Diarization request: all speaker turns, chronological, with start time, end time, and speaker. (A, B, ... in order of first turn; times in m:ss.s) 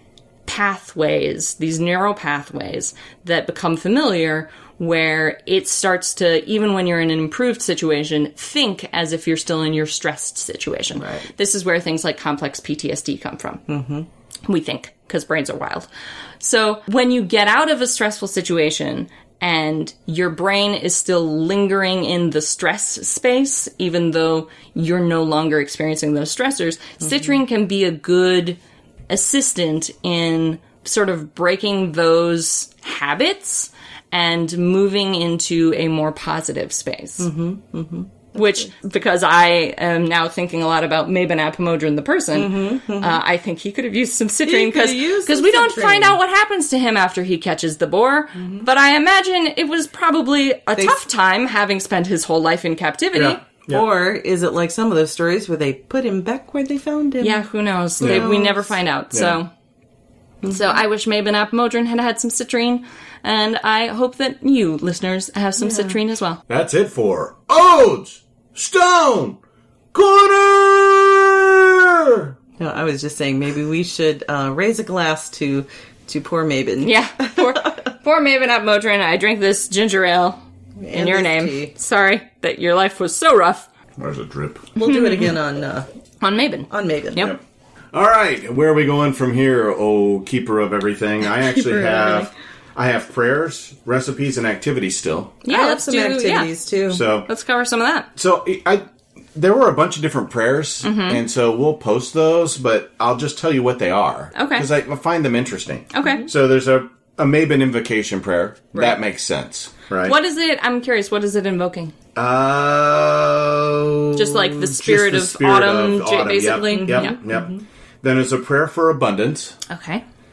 0:00.5-0:13.6 A
0:13.7-0:14.1 B
0:14.5-0:15.9 A
0:16.4-0:28.6 A
0:29.1-0:37.3 A
0:37.2-0:38.1 B
0:38.3-0:53.4 A
0:42.3-0:43.2 B
0:44.5-0:46.2 B
0:48.4-0:48.6 B
0:53.2-0:53.8 C
0:53.7-0:57.4 B
0:57.2-0:59.5 A
0:58.0-0:58.7 B
0:58.0-0:58.4 C
0:59.1-0:59.4 C
1:00.4-1:06.4 A
1:05.6-1:06.0 B
1:06.5-1:09.4 C
1:09.9-1:12.4 C
1:12.6-1:17.5 B
1:16.8-1:20.4 A
1:20.8-1:21.7 B
1:20.9-1:23.7 A
1:24.0-1:24.7 C
1:24.8-1:25.9 B
1:24.8-1:25.4 A
1:26.2-1:27.4 A
1:26.7-1:27.3 B
1:27.9-1:35.4 C
1:31.4-1:32.3 A
1:35.4-1:36.5 A
1:35.5-1:37.0 B
1:36.9-1:37.3 C
1:37.3-1:38.1 A
1:38.2-1:50.2 C
1:40.8-1:41.2 A
1:44.3-1:44.7 A
1:45.9-1:46.2 A
1:50.0-1:51.9 A
1:52.2-1:57.5 C
1:54.2-1:57.2 A
1:56.7-1:57.6 B
1:58.0-1:59.6 C
1:59.7-2:00.0 A